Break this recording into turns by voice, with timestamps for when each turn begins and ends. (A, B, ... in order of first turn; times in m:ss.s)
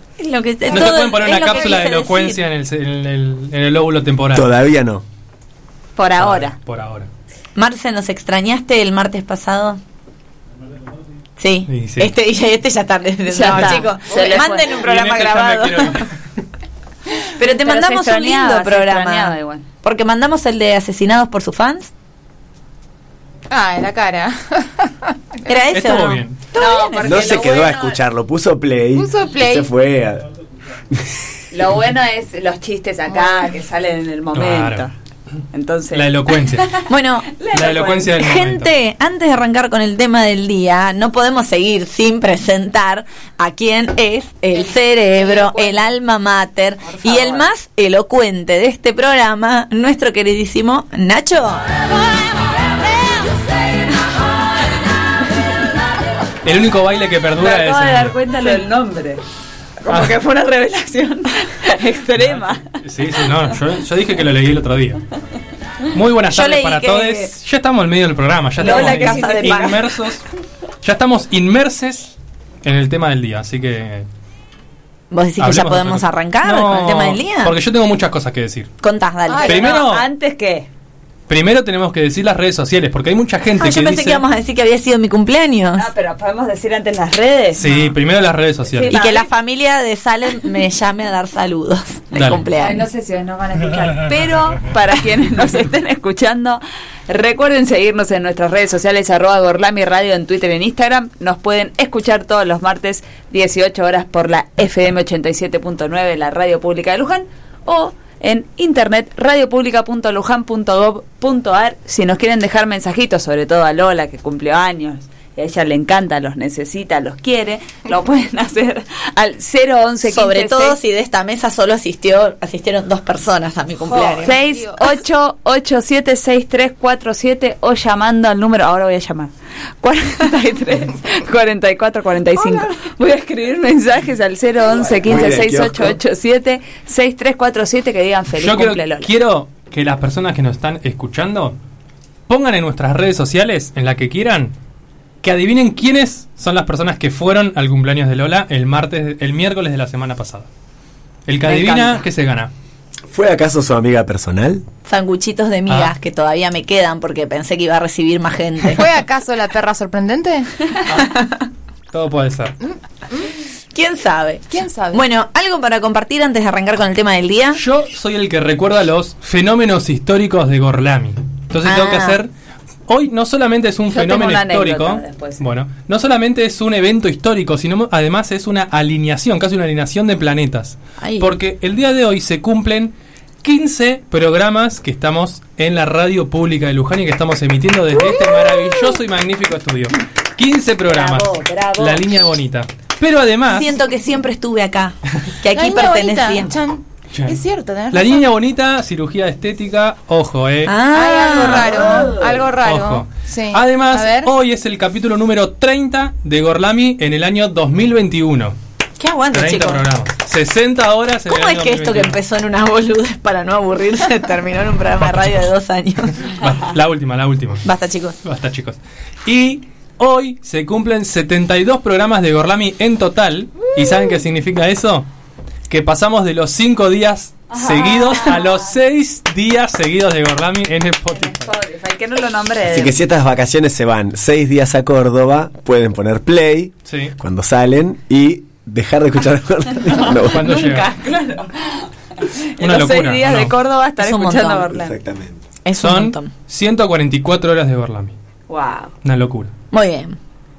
0:00.2-0:02.4 A
0:00.7-0:04.5 B
0:04.3-0:05.0 C
0:06.0-0:06.6 D
0:06.2-0:07.1 B
0:07.6-0:09.8 A
0:11.4-0:16.0 A
0:11.7-0:12.1 B
0:13.3-0:14.8 D
0:13.5-0:13.8 B
0:14.7-0:16.1 B
0:17.4-0:21.9 A
0:17.6-0:19.6 D
0:23.5-0:25.1 E
0:25.5-0:26.2 A
0:25.7-0:26.4 B
0:26.5-0:28.0 D
0:27.0-0:30.3 C
0:29.0-0:29.7 E
0:30.9-0:31.2 C
0:31.5-0:34.9 D
0:33.2-0:33.5 E
0:34.3-0:34.9 B
0:35.5-0:38.1 D
0:35.9-0:36.8 B
0:36.9-0:37.4 A
0:37.5-0:38.7 B
0:38.1-0:51.6 A
0:45.2-0:45.8 D
0:46.8-0:47.4 D
0:56.4-0:58.2 B
0:57.4-0:59.2 D
0:59.8-1:02.7 D
0:59.9-1:00.2 B
1:02.2-1:05.0 B
1:05.9-1:10.2 B
1:06.3-1:07.3 A
1:08.6-1:09.8 A
1:08.6-1:09.8 D
1:10.8-1:12.1 B
1:12.6-1:14.1 B
1:15.1-1:17.6 A
1:15.4-1:18.7 B
1:18.8-1:19.7 A
1:19.3-1:19.6 E
1:19.4-1:20.0 B
1:19.5-1:20.7 D
1:21.3-1:24.2 B
1:23.6-1:25.9 A
1:25.8-1:27.9 D
1:27.6-1:29.0 B
1:28.7-1:29.3 D
1:28.9-1:32.9 A
1:32.1-1:32.4 B
1:32.6-2:00.8 D
2:00.0-2:04.4 A
2:03.8-2:19.1 D
2:04.2-2:04.8 E
2:15.0-2:16.0 C
2:18.3-2:21.6 B
2:22.3-2:24.5 B
2:25.2-2:30.5 B
2:31.3-2:32.5 B
2:31.5-2:32.0 A
2:33.1-2:34.6 C
2:34.8-2:38.8 A
2:35.7-2:35.9 B
2:38.8-2:40.5 E
2:41.0-2:41.4 A
2:41.9-2:42.6 B
2:42.6-2:43.3 E
2:43.7-2:47.6 A
2:44.5-2:45.0 E
2:47.6-2:52.3 B
2:51.7-2:52.2 A
2:52.9-3:13.7 B
2:53.9-2:55.4 D
3:01.0-3:01.3 A
3:08.0-3:08.9 D
3:10.9-3:12.0 D
3:13.5-3:16.5 A
3:15.6-3:18.3 E
3:17.1-3:17.4 B
3:17.9-3:20.8 B
3:20.7-3:22.1 A
3:21.0-3:22.4 D
3:21.0-3:24.3 E
3:22.5-3:28.6 B
3:29.0-3:29.8 A
3:29.3-3:32.2 B
3:31.3-3:36.4 A
3:36.4-3:37.6 B
3:37.6-3:38.2 A
3:38.2-3:45.1 B
3:45.7-3:51.5 B
3:47.5-3:48.7 D
3:51.1-3:53.0 D
3:52.6-4:00.5 C
3:56.9-3:57.1 B
4:00.0-4:05.0 D
4:00.3-4:00.9 B
4:02.6-4:03.5 B
4:04.0-4:04.7 A
4:04.7-4:05.4 C
4:05.6-4:06.3 A
4:05.8-4:08.1 B
4:08.5-4:08.9 D
4:09.0-4:09.5 B
4:09.7-4:10.2 A